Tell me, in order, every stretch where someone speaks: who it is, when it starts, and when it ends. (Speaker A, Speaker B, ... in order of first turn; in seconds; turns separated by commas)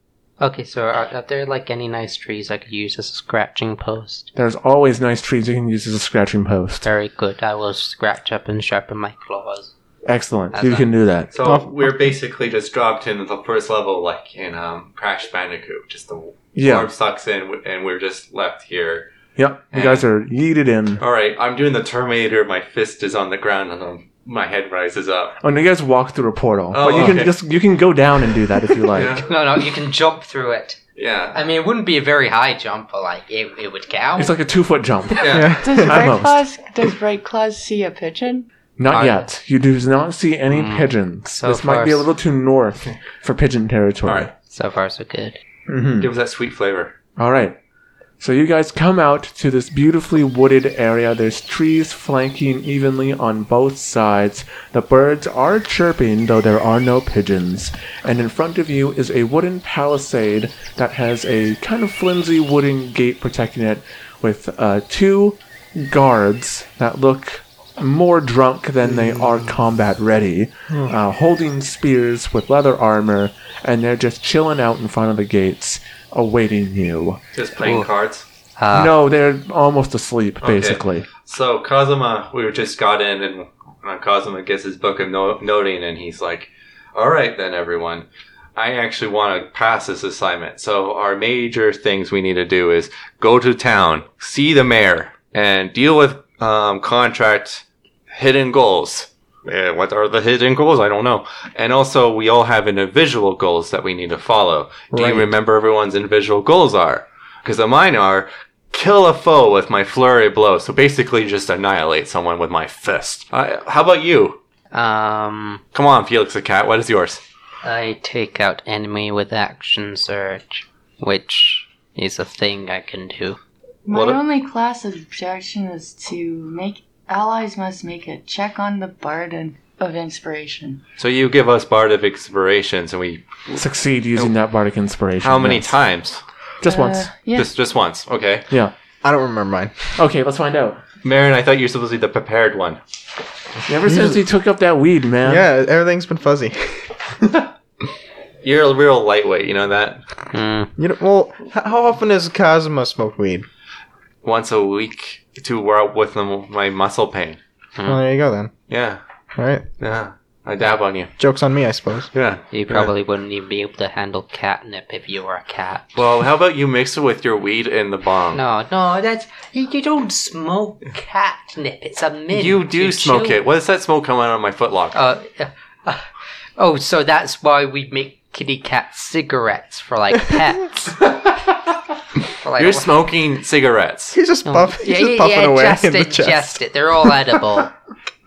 Speaker A: 0.4-4.3, Speaker B: 4.3-6.9, Speaker A: 6.8-9.7, Speaker B: 10.1-11.3, Speaker A: 10.5-10.9, Speaker C: 11.3-19.1, Speaker D: 11.4-12.0, Speaker B: 16.6-16.9, Speaker B: 19.4-21.0, Speaker C: 19.7-20.1, Speaker C: 21.0-25.4, Speaker B: 25.4-29.2, Speaker C: 26.7-27.4, Speaker C: 28.9-29.3, Speaker A: 29.3-30.8, Speaker C: 31.0-31.4, Speaker A: 31.3-34.3, Speaker B: 34.2-36.4, Speaker C: 35.2-35.5, Speaker D: 35.3-36.0, Speaker E: 35.6-38.5, Speaker B: 38.8-44.3, Speaker A: 38.9-39.3, Speaker A: 40.5-42.1, Speaker C: 44.0-44.3, Speaker A: 44.5-45.4, Speaker B: 45.7-46.1, Speaker C: 46.0-46.9, Speaker B: 47.2-47.6, Speaker B: 48.2-77.2, Speaker C: 77.3-78.3, Speaker A: 77.6-77.9, Speaker A: 78.6-78.9, Speaker B: 78.7-81.1, Speaker C: 80.4-114.4, Speaker D: 104.9-105.3, Speaker A: 114.7-115.6, Speaker C: 115.7-117.2, Speaker A: 117.6-123.4, Speaker E: 123.9-130.8, Speaker C: 123.9-124.2, Speaker C: 131.0-133.6, Speaker B: 133.6-135.8, Speaker C: 135.2-136.2, Speaker B: 136.6-137.1, Speaker E: 136.7-137.5, Speaker C: 137.3-138.5, Speaker D: 139.0-140.0, Speaker B: 140.0-140.8, Speaker C: 141.0-142.8, Speaker B: 143.7-145.4, Speaker D: 143.9-144.2, Speaker D: 145.2-146.9, Speaker C: 148.4-150.0, Speaker A: 150.3-150.7, Speaker D: 150.8-153.5, Speaker C: 154.2-157.4, Speaker D: 157.8-158.5, Speaker C: 158.7-159.0, Speaker D: 159.4-159.7, Speaker C: 159.8-161.1, Speaker D: 161.2-162.1, Speaker C: 162.1-162.9, Speaker A: 162.5-166.0, Speaker C: 166.0-168.4, Speaker A: 168.3-173.4, Speaker C: 172.3-175.0, Speaker A: 174.9-180.9, Speaker A: 182.4-182.9, Speaker C: 182.6-184.2, Speaker D: 184.1-187.1, Speaker A: 184.4-187.7